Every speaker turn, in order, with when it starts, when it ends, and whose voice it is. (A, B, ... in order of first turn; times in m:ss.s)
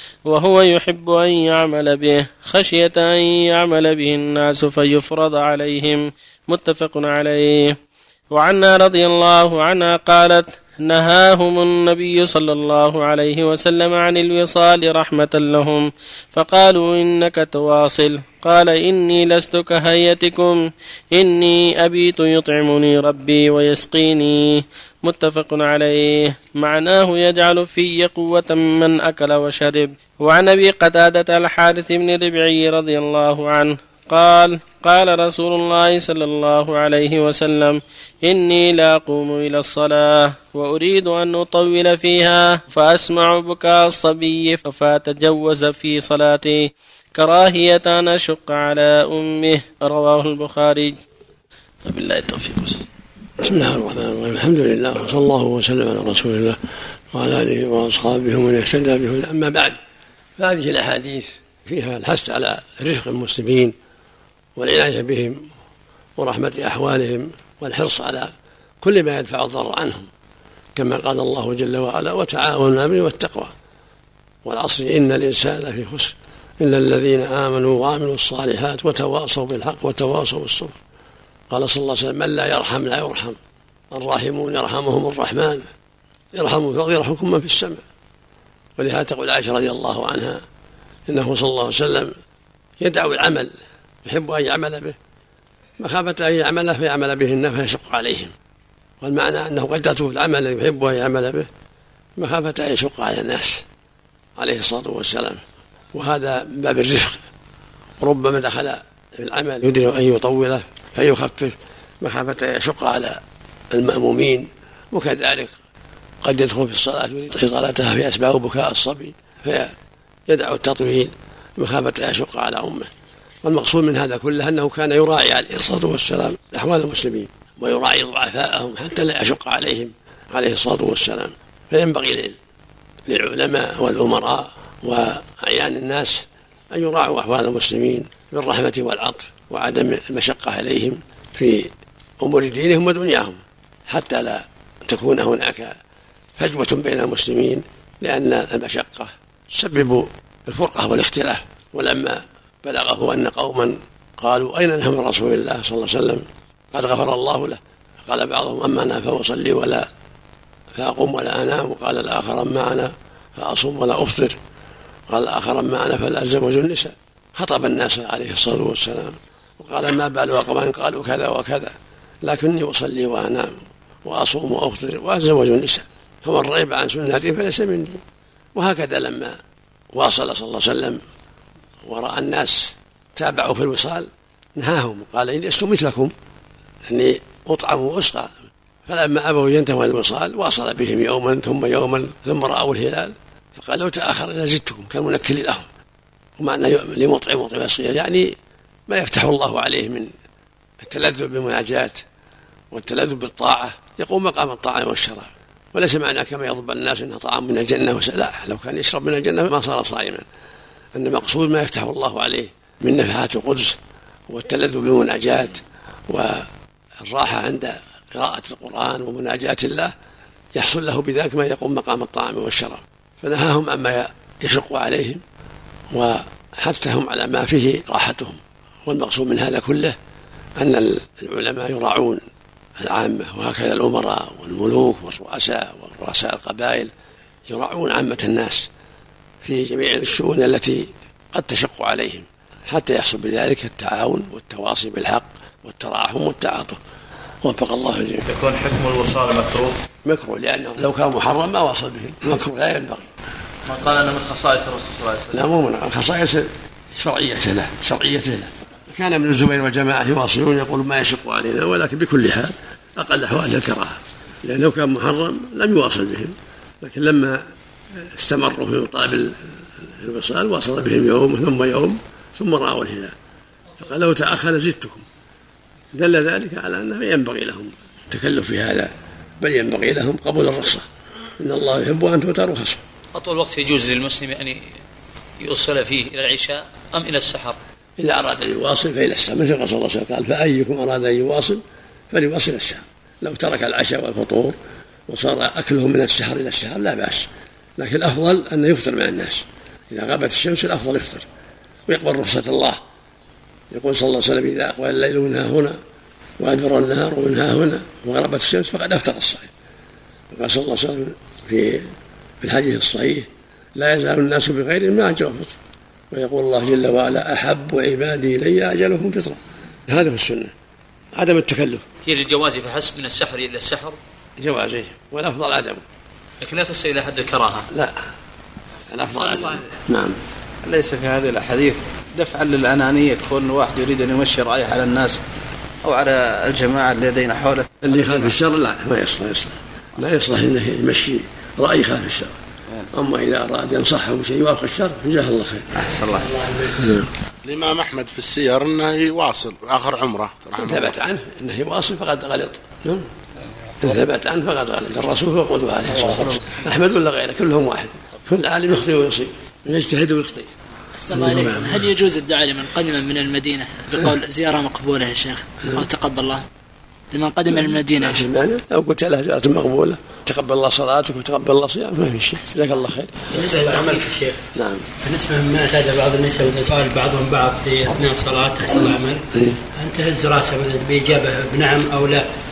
0:00.2-0:07.8 A
0:08.3-0:51.0 A
0:51.9-0:52.8 A
0:53.4-0:56.6 B
0:57.1-0:59.8 B
1:00.4-1:03.7 B
1:04.6-1:05.4 B
1:06.2-1:08.3 B
1:08.8-1:10.1 B
1:10.8-1:13.5 B
1:14.4-1:20.8 B
1:21.5-1:23.4 B
1:23.9-1:25.6 B
1:26.3-1:27.8 B
1:28.8-1:30.4 B
1:31.1-1:32.1 B
1:32.8-1:33.5 B
1:34.0-1:35.0 B
1:35.8-1:38.3 B
1:39.0-1:41.5 B
1:42.2-1:43.6 B
1:44.4-1:45.4 B
1:45.9-1:47.2 B
1:48.0-1:53.2 B
1:53.7-1:55.6 B
1:56.2-1:59.7 B
2:00.3-2:02.9 B
2:03.4-2:12.4 B
2:13.1-2:25.7 B
2:26.4-2:39.9 B
2:40.7-2:44.4 B
2:45.1-2:53.5 B
2:54.0-2:58.0 B
2:58.5-2:59.4 B
2:59.9-3:01.0 B
3:01.8-3:06.1 B
3:06.9-3:08.3 B
3:08.8-3:15.6 B
3:16.4-3:18.3 B
3:18.9-3:20.1 B
3:20.8-3:22.0 B
3:22.7-3:30.2 B
3:30.9-3:36.5 B
3:37.0-3:39.9 B
3:40.5-3:45.2 B
3:45.9-3:50.0 B
3:50.6-3:52.2 B
3:52.8-3:56.9 B
3:57.5-3:58.7 B
3:59.4-4:06.8 B
4:07.4-4:08.3 B
4:08.3-4:09.7 C
4:10.0-4:13.1 B
4:13.7-4:15.3 C
4:15.3-4:27.4 B
4:28.0-4:33.1 B
4:33.8-4:35.0 B
4:35.9-4:40.8 B
4:41.4-4:42.8 B
4:43.1-4:44.6 C
4:45.4-4:47.6 C
4:48.0-4:54.6 B
4:55.1-5:01.2 B
5:01.9-5:02.8 B
5:03.7-5:05.8 B
5:06.4-5:09.5 B
5:10.3-5:11.9 B
5:12.4-5:15.6 B
5:16.1-5:20.5 B
5:21.1-5:21.8 B
5:22.0-5:24.0 C
5:24.4-5:25.8 B
5:26.4-5:27.7 C
5:27.7-5:28.0 B
5:28.9-5:30.2 B
5:29.1-5:29.6 C
5:30.6-5:35.2 D
5:35.8-5:38.3 D
5:37.8-5:42.4 B
5:42.9-5:45.8 B
5:45.8-5:46.7 D
5:46.8-5:47.1 B
5:47.4-5:51.0 E
5:50.6-5:53.1 B
5:53.8-6:00.5 B
6:01.0-6:06.4 F
6:01.1-6:01.9 B
6:07.1-6:08.3 F
6:07.9-6:13.3 B
6:12.5-6:14.1 F
6:13.4-6:14.4 G
6:14.5-6:14.8 B
6:15.0-6:19.2 G
6:19.8-6:22.3 G